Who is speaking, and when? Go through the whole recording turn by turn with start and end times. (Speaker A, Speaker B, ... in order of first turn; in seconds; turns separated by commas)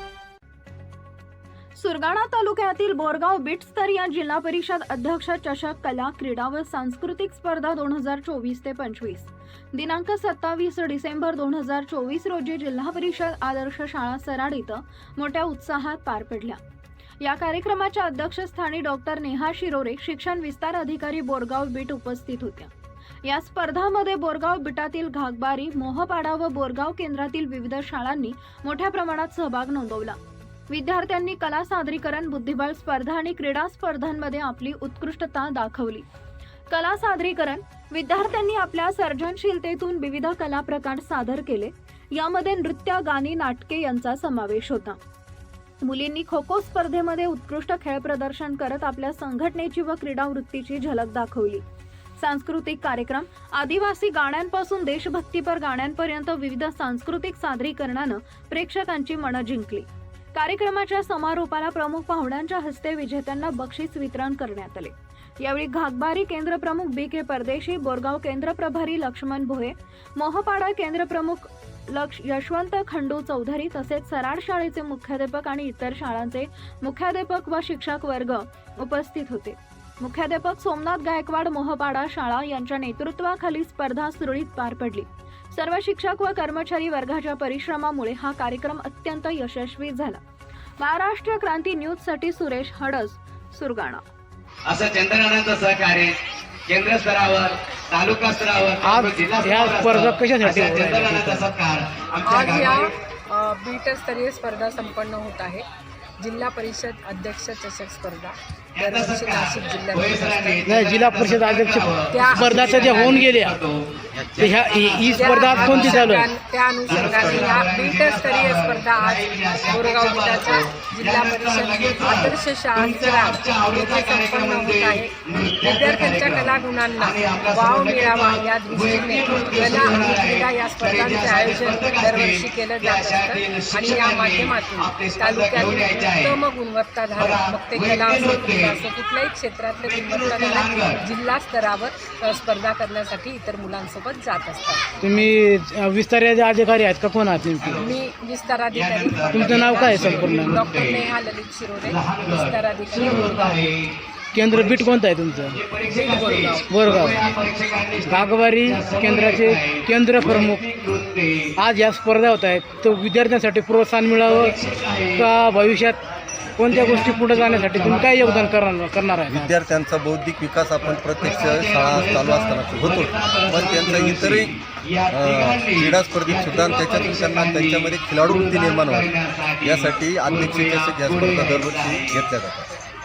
Speaker A: 1.8-16.6, Speaker A: 17.2-22.7, Speaker A: 23.2-30.2, Speaker A: 30.7-36.0, Speaker A: 36.7-45.0, Speaker A: 45.8-51.6, Speaker A: 52.2-90.2, Speaker A: 90.8-94.0, Speaker B: 94.7-102.9, Speaker C: 98.8-101.5, Speaker D: 102.2-105.6, Speaker D: 106.2-110.6, Speaker B: 108.8-116.2, Speaker C: 110.6-113.6, Speaker D: 112.1-113.3, Speaker E: 114.1-114.4, Speaker C: 114.4-116.3, Speaker D: 115.1-144.9, Speaker B: 116.9-136.4, Speaker E: 116.9-117.5, Speaker B: 137.2-138.8, Speaker B: 139.8-141.0, Speaker C: 145.0-147.8, Speaker B: 147.6-147.9, Speaker D: 147.8-153.6, Speaker B: 148.7-151.1, Speaker C: 149.3-150.6, Speaker B: 151.8-154.0, Speaker C: 154.3-155.6, Speaker B: 154.5-161.5, Speaker D: 155.9-156.7, Speaker C: 156.6-157.3, Speaker C: 158.1-160.6, Speaker C: 161.6-164.6, Speaker B: 164.2-165.3, Speaker C: 165.2-166.0, Speaker C: 166.6-169.5, Speaker B: 166.7-168.6, Speaker E: 169.3-174.6, Speaker B: 170.8-182.2, Speaker E: 175.1-182.7